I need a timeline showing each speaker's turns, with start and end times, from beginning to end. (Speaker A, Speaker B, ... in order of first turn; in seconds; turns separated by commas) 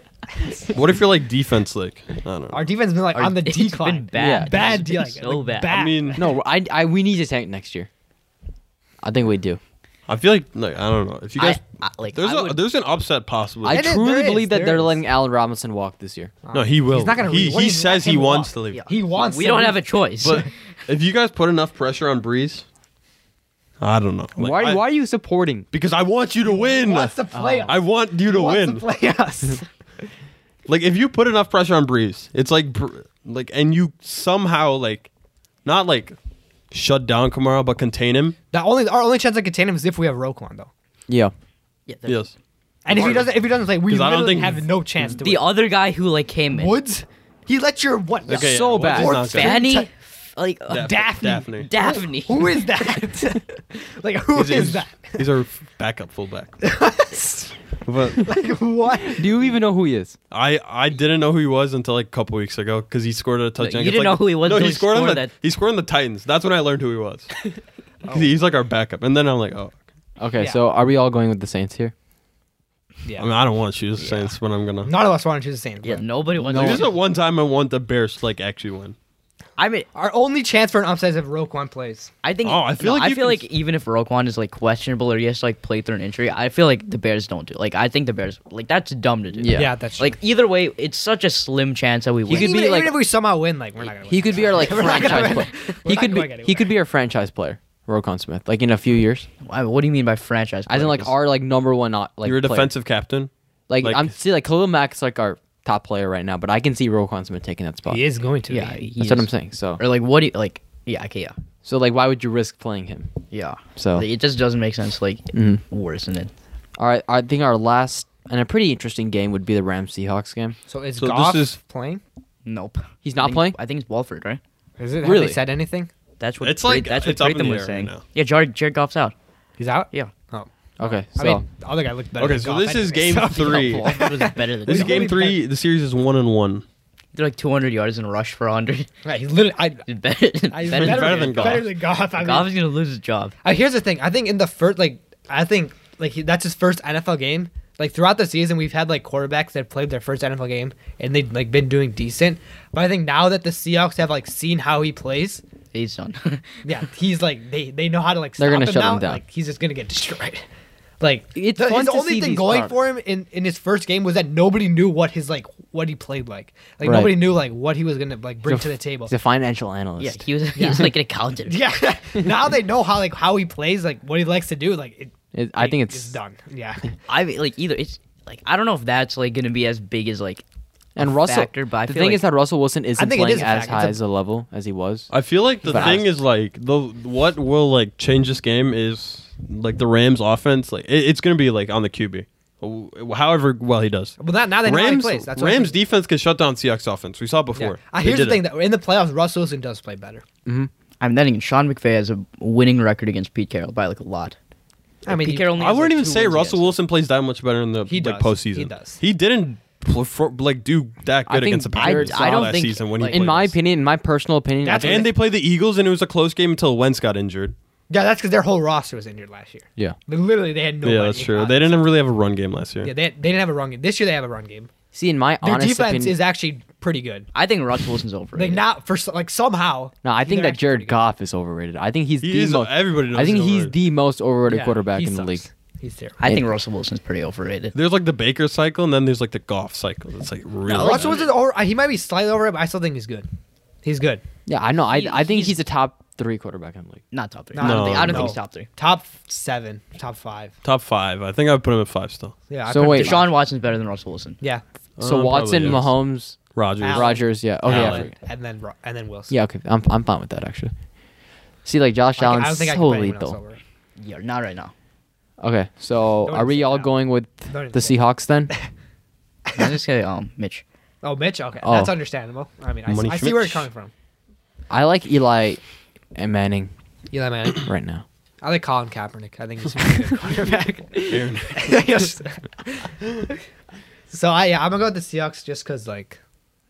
Speaker A: 0.7-2.6, Speaker B: 2.5-6.3, Speaker C: 3.1-5.7, Speaker D: 4.2-4.7, Speaker A: 5.6-6.2, Speaker D: 6.2-7.9, Speaker D: 9.0-9.6, Speaker A: 10.1-13.9, Speaker C: 11.4-12.6, Speaker D: 13.6-16.3, Speaker B: 13.7-15.0, Speaker B: 16.4-19.8, Speaker A: 16.5-18.8, Speaker C: 18.7-20.5, Speaker A: 20.2-22.6, Speaker A: 23.8-24.8, Speaker D: 24.4-25.6, Speaker A: 25.7-28.8, Speaker B: 26.4-29.6, Speaker D: 27.3-27.7, Speaker A: 30.7-35.1, Speaker A: 35.6-36.1, Speaker A: 36.7-38.4, Speaker B: 38.5-40.7, Speaker D: 41.1-41.3, Speaker C: 41.9-42.2, Speaker A: 42.1-42.3, Speaker B: 42.8-45.5, Speaker A: 42.9-44.6, Speaker C: 45.2-46.8, Speaker B: 46.5-49.9, Speaker A: 48.3-49.6, Speaker D: 48.3-49.2, Speaker C: 49.3-52.6, Speaker A: 50.7-51.7, Speaker B: 50.8-55.3, Speaker A: 54.3-56.6, Speaker B: 56.6-57.5, Speaker A: 57.8-58.4, Speaker B: 58.2-59.3, Speaker D: 59.0-60.1, Speaker A: 60.3-67.4, Speaker C: 63.6-65.3, Speaker A: 68.1-69.8, Speaker D: 70.2-71.9, Speaker A: 73.2-74.9, Speaker C: 74.0-74.3, Speaker B: 74.8-76.0, Speaker C: 75.8-76.9, Speaker A: 76.4-78.9, Speaker D: 76.4-76.9, Speaker C: 79.6-79.9, Speaker B: 79.9-82.1, Speaker C: 82.2-92.5, Speaker A: 82.4-83.5, Speaker D: 89.4-89.7, Speaker B: 89.5-90.1, Speaker D: 92.3-93.0, Speaker B: 92.3-96.7, Speaker D: 94.1-99.3, Speaker C: 94.5-95.5, Speaker C: 99.4-101.1, Speaker D: 100.7-102.7, Speaker A: 102.2-104.1, Speaker D: 103.7-108.0, Speaker B: 107.9-108.8, Speaker C: 108.5-111.3, Speaker D: 109.0-109.8, Speaker D: 111.6-113.1, Speaker C: 113.3-116.3, Speaker D: 113.8-114.0, Speaker D: 115.3-115.6, Speaker D: 116.8-120.5, Speaker B: 120.7-122.0, Speaker A: 121.0-121.6, Speaker C: 122.4-124.4, Speaker D: 123.0-123.5, Speaker B: 124.8-125.9, Speaker D: 125.0-125.4, Speaker C: 126.2-129.1, Speaker A: 126.4-128.0, Speaker B: 129.6-130.5, Speaker D: 130.8-131.4, Speaker B: 131.1-135.4, Speaker A: 132.2-136.6, Speaker C: 133.4-135.1, Speaker C: 137.1-138.9, Speaker B: 139.0-139.8, Speaker C: 139.9-143.3, Speaker B: 140.5-142.5, Speaker A: 140.7-141.7, Speaker B: 143.4-155.4, Speaker C: 155.7-156.5, Speaker B: 156.6-160.4, Speaker D: 158.4-159.2, Speaker B: 161.0-169.1, Speaker D: 161.3-162.8, Speaker D: 166.8-167.3, Speaker D: 168.4-170.2, Speaker C: 170.0-171.6, Speaker B: 170.6-170.9, Speaker B: 171.5-176.9, Speaker D: 175.3-176.2, Speaker C: 177.1-180.4, Speaker D: 180.9-185.1, Speaker C: 181.0-182.2, Speaker B: 183.0-184.0, Speaker A: 185.1-198.4, Speaker D: 185.6-186.1, Speaker B: 185.7-186.0, Speaker B: 194.2-195.8, Speaker B: 197.6-200.2, Speaker C: 201.0-204.3, Speaker B: 205.0-205.5, Speaker C: 205.1-206.7, Speaker A: 205.5-213.5, Speaker B: 207.9-209.0, Speaker D: 211.3-215.1, Speaker C: 211.7-213.2, Speaker B: 214.6-215.1, Speaker A: 214.8-217.5, Speaker B: 217.9-221.9, Speaker A: 220.8-222.9, Speaker B: 222.8-224.7, Speaker D: 224.9-226.2, Speaker B: 225.4-227.3, Speaker C: 227.3-228.6, Speaker B: 228.3-231.0, Speaker D: 230.0-235.4, Speaker A: 232.2-233.8, Speaker B: 234.5-236.2, Speaker C: 236.2-237.7, Speaker A: 237.7-241.2, Speaker C: 240.7-241.3, Speaker B: 240.8-243.3, Speaker B: 243.8-244.2, Speaker D: 244.5-247.0, Speaker C: 244.9-245.6, Speaker C: 247.1-248.7, Speaker B: 247.5-250.5, Speaker A: 247.6-248.4, Speaker A: 250.6-252.3, Speaker B: 252.5-253.3, Speaker D: 252.7-253.2, Speaker C: 252.9-254.4, Speaker A: 255.0-255.9, Speaker D: 255.0-256.4, Speaker A: 256.5-258.1, Speaker B: 256.8-259.3, Speaker D: 256.9-258.1, Speaker D: 259.3-260.7, Speaker D: 261.6-263.4, Speaker B: 262.2-263.6, Speaker C: 264.0-264.7, Speaker D: 265.4-268.5, Speaker B: 266.3-266.9, Speaker B: 267.5-268.6, Speaker B: 269.5-269.7, Speaker C: 269.5-270.6, Speaker B: 271.0-273.9, Speaker D: 271.6-271.9, Speaker A: 272.9-273.6, Speaker D: 274.7-275.6, Speaker D: 276.1-276.7, Speaker B: 277.1-277.6, Speaker D: 277.6-278.0, Speaker B: 278.4-283.4, Speaker A: 281.1-281.9, Speaker B: 284.1-286.2